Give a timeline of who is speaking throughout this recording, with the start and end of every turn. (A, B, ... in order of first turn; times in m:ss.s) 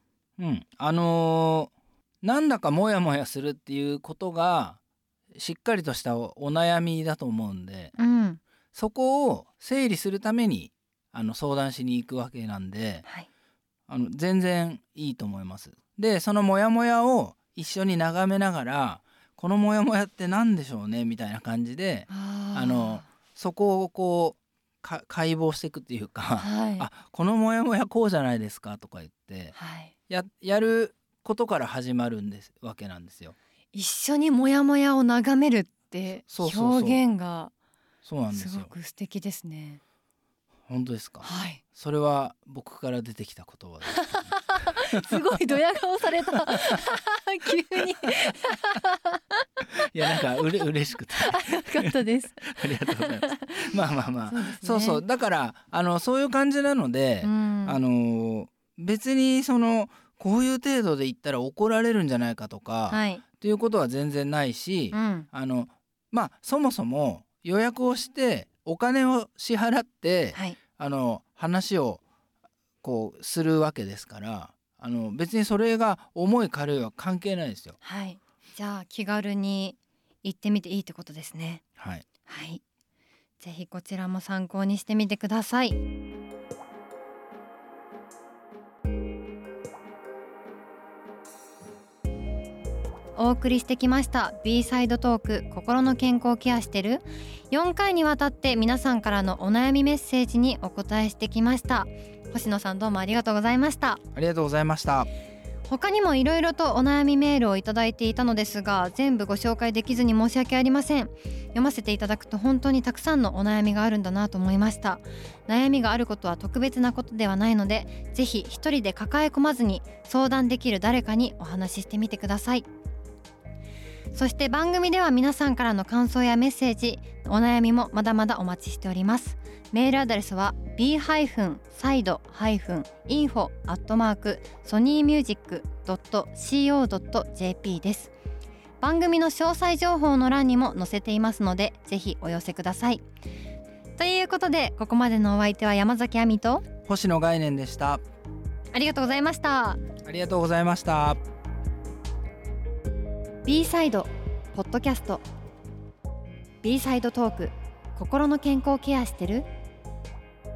0:00.4-0:01.7 A
0:02.2-0:04.8 A
0:05.4-0:07.9 A
0:08.0-0:08.4 B
0:08.7-0:13.0 A
0:13.9-0:29.6 A
0:22.1-0:23.1 B
0:26.4-0:26.9 B
0:29.5-0:29.9 B
0:30.1-0:33.4 A
0:33.7-0:37.5 B
0:36.3-0:37.0 A
0:38.0-0:38.7 A
0:38.3-0:39.8 B
0:40.7-0:44.2 A
0:41.2-0:41.6 B
0:43.8-0:50.3 B
0:44.8-0:45.6 A
0:46.5-0:46.7 A
0:49.8-1:12.0 A
0:51.2-0:53.6 B
0:54.3-0:55.0 B
0:57.2-0:57.8 B
1:02.9-1:03.2 B
1:04.9-1:05.3 B
1:12.8-1:17.8 A
1:17.8-1:21.6 B
1:21.8-1:22.0 A
1:22.2-1:22.6 B
1:23.4-1:25.8 B
1:33.1-1:44.0 B
1:44.1-1:45.1 A
1:45.7-2:02.6 B
2:04.1-2:18.1 B
2:18.8-2:23.0 B
2:24.0-2:26.6 B
2:26.8-2:28.0 A
2:28.7-2:29.8 B
2:30.0-2:31.2 A
2:33.4-2:35.2 B
2:36.6-2:39.4 B